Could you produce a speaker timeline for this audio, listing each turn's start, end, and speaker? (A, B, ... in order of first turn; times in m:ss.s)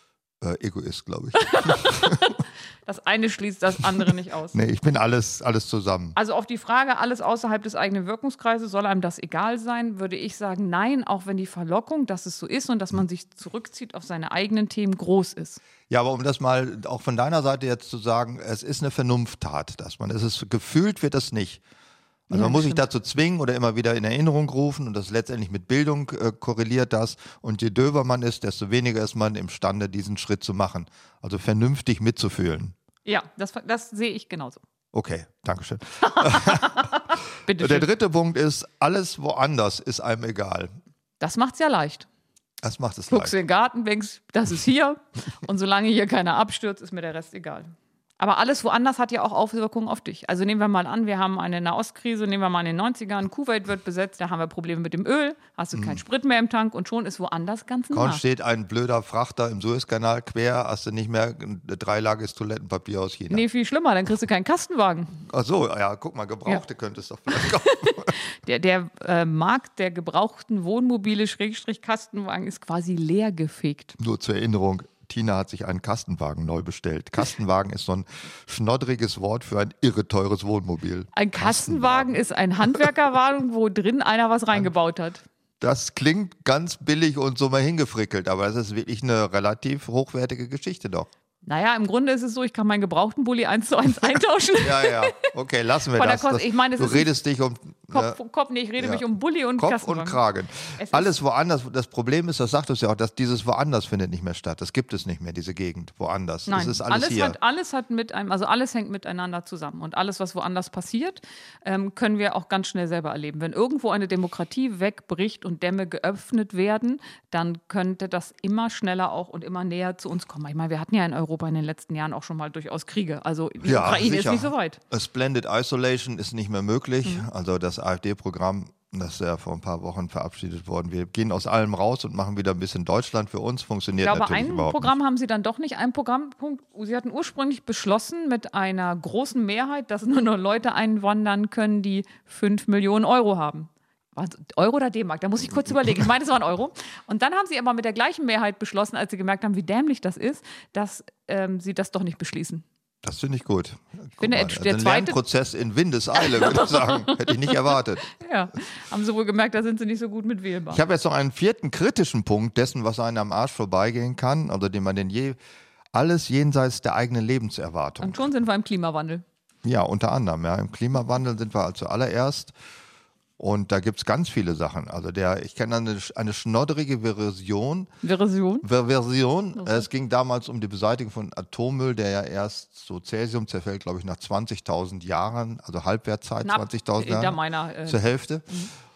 0:00.4-0:02.3 A
0:01.4-0:04.6 B
0:04.5-0:06.2 A
0:06.2-0:15.6 B
0:15.9-0:21.6 A
0:22.3-0:32.8 A
0:22.3-0:22.8 B
0:33.0-0:34.6 B
0:34.9-0:37.0 A
0:36.0-0:37.9 B
0:37.5-0:40.7 A
0:41.2-0:42.1 B
0:42.6-0:43.3 A
0:43.1-0:58.2 B
0:55.8-0:56.0 A
0:57.9-1:03.4 A
1:03.3-1:05.2 B
1:05.3-1:08.2 A
1:07.4-1:14.0 B
1:14.0-1:22.2 A
1:21.2-1:25.2 B
1:25.6-1:31.1 A
1:31.4-1:35.2 B
1:34.6-1:38.2 A
1:36.0-1:37.1 B
1:37.9-1:40.2 B
1:38.8-1:47.4 A
1:40.8-1:41.1 B
1:46.5-2:04.8 B
2:03.6-2:14.9 A
2:14.0-2:32.6 B
2:33.0-2:38.1 A
2:34.2-2:35.2 B
2:36.2-2:40.8 B
2:40.7-2:45.4 A
2:45.9-2:48.2 A
2:48.0-2:49.2 B
2:49.6-2:52.5 A
2:53.4-2:57.9 A
2:58.0-2:58.7 B
2:58.6-3:08.5 A
3:06.4-3:08.7 B